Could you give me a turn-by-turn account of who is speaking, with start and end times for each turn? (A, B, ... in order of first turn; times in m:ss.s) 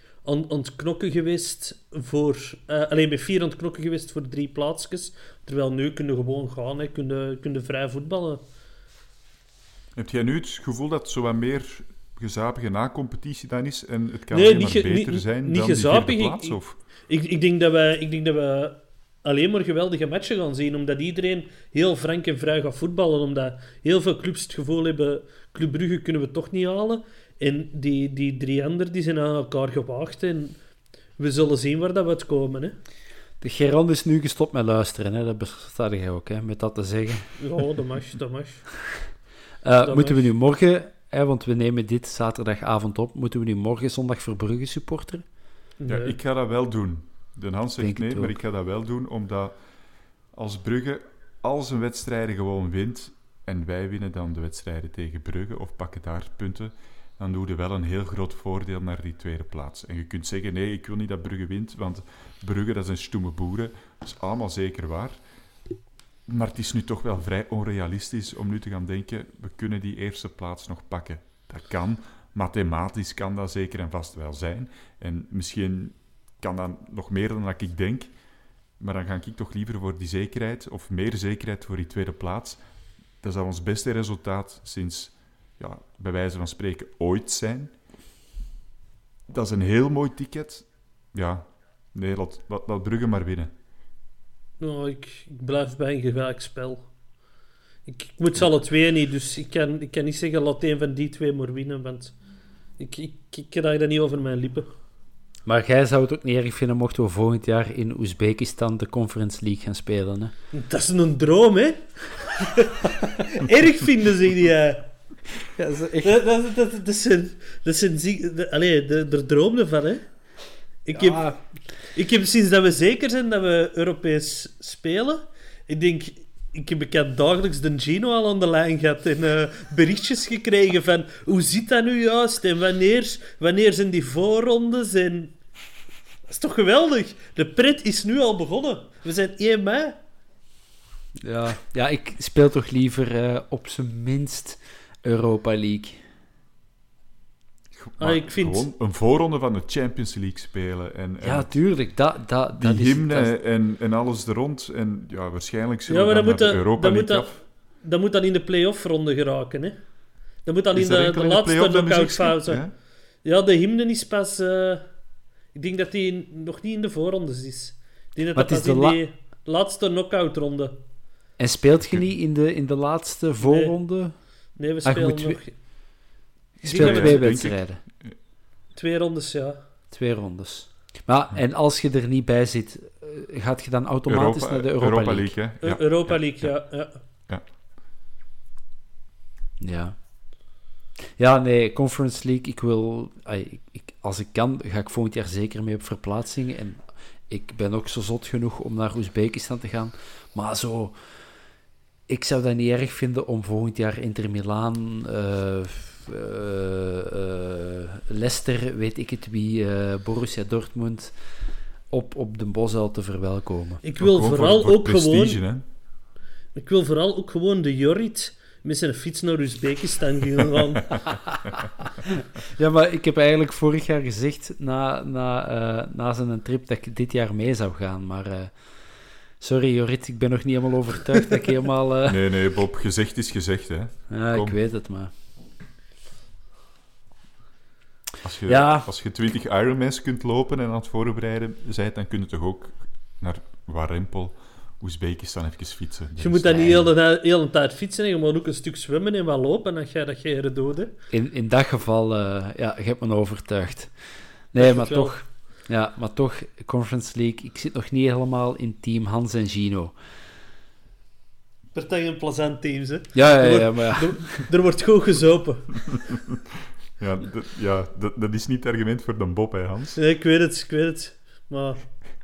0:00.2-0:08.4 A
0:10.0-0:16.8 B
0:14.3-0:30.6 A
0:31.2-0:32.8 A
0:33.4-0:37.3 C
0:37.4-0:38.7 A
0:39.6-0:45.2 C
0:39.8-0:40.3 A
0:45.8-0:46.2 A
0:45.9-0:49.5 B
0:47.8-0:48.3 C
0:50.3-1:05.2 B
1:06.3-1:18.1 B
1:18.8-1:22.6 B
1:23.2-1:27.7 B
1:29.3-1:33.5 B
1:34.6-1:36.9 A
1:37.8-1:42.1 A
1:42.8-1:44.7 A
1:45.4-1:50.3 C
1:50.5-1:54.9 A
1:55.6-1:56.2 C
1:56.0-2:00.1 A
2:00.8-2:01.3 A
2:00.9-2:01.4 C
2:01.9-2:15.4 A
2:16.2-2:20.0 A
2:21.2-2:26.0 C
2:27.7-2:31.5 B
2:28.0-2:28.7 A
2:31.2-2:33.3 C
2:32.5-2:37.4 B
2:35.9-2:39.8 A
2:40.4-2:42.6 A
2:40.7-2:42.7 B
2:43.2-2:44.9 A
2:45.5-2:50.8 A
2:48.3-2:49.0 C
2:51.4-2:54.2 C
2:53.4-2:53.8 A
2:54.6-2:55.6 A
2:54.8-2:55.4 C
2:56.6-2:57.3 A
2:56.6-2:57.8 C
2:56.6-2:58.1 B
2:58.7-2:59.6 A
2:59.9-3:05.3 C
3:04.1-3:06.6 B
3:05.6-3:07.0 A
3:09.6-3:10.0 C
3:11.2-3:20.9 C
3:22.1-3:31.1 C
3:31.9-3:33.8 C
3:33.8-3:35.4 A
3:34.0-3:35.6 B
3:36.5-3:41.1 A
3:41.1-3:41.4 C
3:42.1-3:48.5 C
3:49.4-3:52.2 C
3:52.1-3:54.6 B
3:54.1-3:55.1 C
3:58.2-4:06.5 B
3:58.5-3:58.9 C
4:06.2-4:10.9 A
4:06.4-4:06.9 C
4:11.1-4:13.9 C
4:14.5-4:19.9 C
4:14.6-4:15.2 A
4:21.7-4:26.1 A
4:23.1-4:24.4 C
4:27.0-4:30.0 B
4:30.0-4:31.9 A